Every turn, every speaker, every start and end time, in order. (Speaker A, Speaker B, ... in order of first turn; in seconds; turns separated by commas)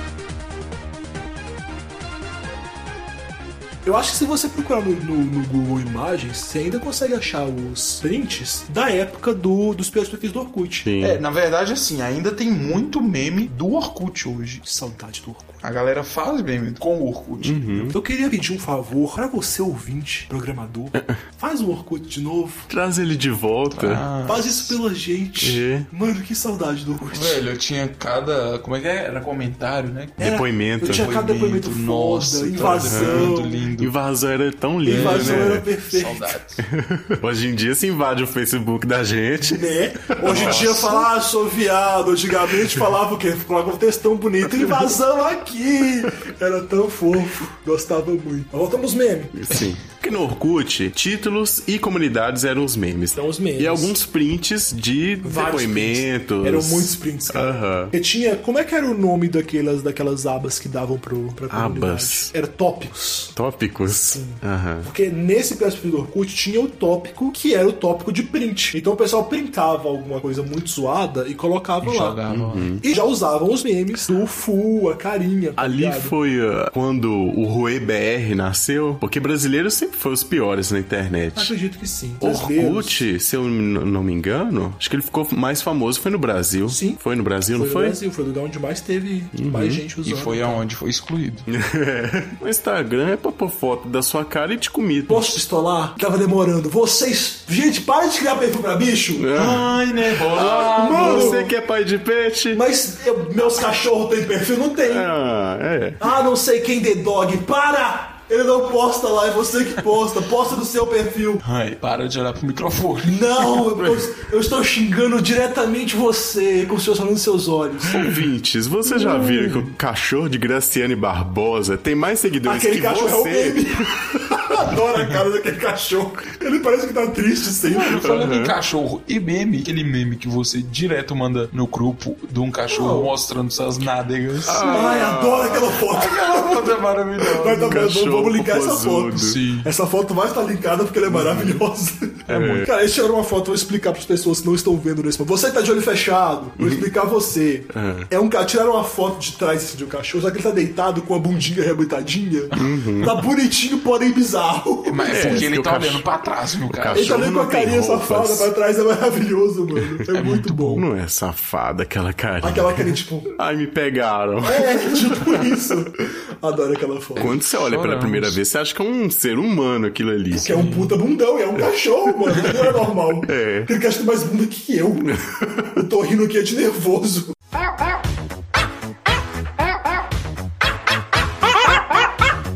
Speaker A: 3.8-10.9, Speaker B: 10.8-11.2, Speaker C: 11.0-14.6, Speaker A: 14.6-15.6, Speaker C: 15.6-17.9, Speaker B: 17.4-17.9, Speaker A: 17.9-22.6, Speaker B: 22.7-24.0, Speaker C: 23.7-24.8, Speaker A: 24.2-27.4, Speaker B: 25.4-25.9, Speaker C: 27.1-30.2, Speaker B: 30.2-31.1, Speaker A: 30.2-33.6, Speaker C: 30.8-33.9, Speaker B: 32.6-35.6, Speaker A: 34.8-36.3, Speaker C: 34.8-36.6, Speaker B: 36.7-39.7, Speaker A: 39.4-49.4, Speaker C: 40.2-41.1, Speaker B: 40.2-40.6, Speaker B: 49.4-57.9, Speaker A: 53.1-53.9, Speaker A: 55.2-63.3, Speaker B: 61.5-62.3, Speaker B: 63.4-64.9, Speaker A: 64.0-72.2, Speaker C: 71.8-72.7, Speaker B: 72.3-72.8, Speaker A: 72.8-76.1, Speaker B: 75.6-81.5, Speaker A: 81.3-83.0, Speaker B: 82.2-88.0, Speaker A: 86.7-87.0, Speaker A: 87.5-90.6, Speaker B: 89.3-89.8, Speaker C: 90.0-91.4, Speaker B: 91.5-95.4, Speaker A: 95.1-99.3, Speaker B: 99.2-99.7, Speaker C: 99.3-101.4, Speaker B: 100.3-102.6, Speaker A: 100.3-101.5, Speaker A: 102.5-105.1, Speaker B: 104.8-106.0, Speaker A: 106.0-111.4, Speaker C: 111.4-113.6, Speaker A: 113.0-118.1, Speaker B: 117.9-124.4, Speaker C: 118.9-119.7, Speaker A: 122.4-128.2, Speaker C: 127.7-134.9, Speaker B: 128.0-128.5, Speaker A: 132.7-133.1, Speaker B: 134.4-135.8, Speaker A: 134.5-155.5, Speaker C: 135.9-137.8, Speaker B: 137.6-139.4, Speaker C: 139.2-139.7, Speaker B: 141.1-141.6, Speaker C: 142.3-142.7, Speaker B: 142.3-142.7, Speaker B: 147.7-148.1, Speaker B: 152.6-153.2, Speaker C: 154.8-157.2, Speaker B: 155.0-156.1, Speaker B: 156.7-158.5, Speaker A: 156.9-160.8, Speaker C: 160.1-160.8, Speaker B: 160.7-165.5, Speaker A: 162.4-163.3, Speaker A: 164.4-167.3, Speaker C: 167.2-168.4, Speaker B: 167.2-170.5, Speaker A: 170.3-175.1, Speaker C: 170.4-170.9, Speaker B: 173.3-173.7, Speaker B: 175.1-175.7, Speaker A: 175.8-177.3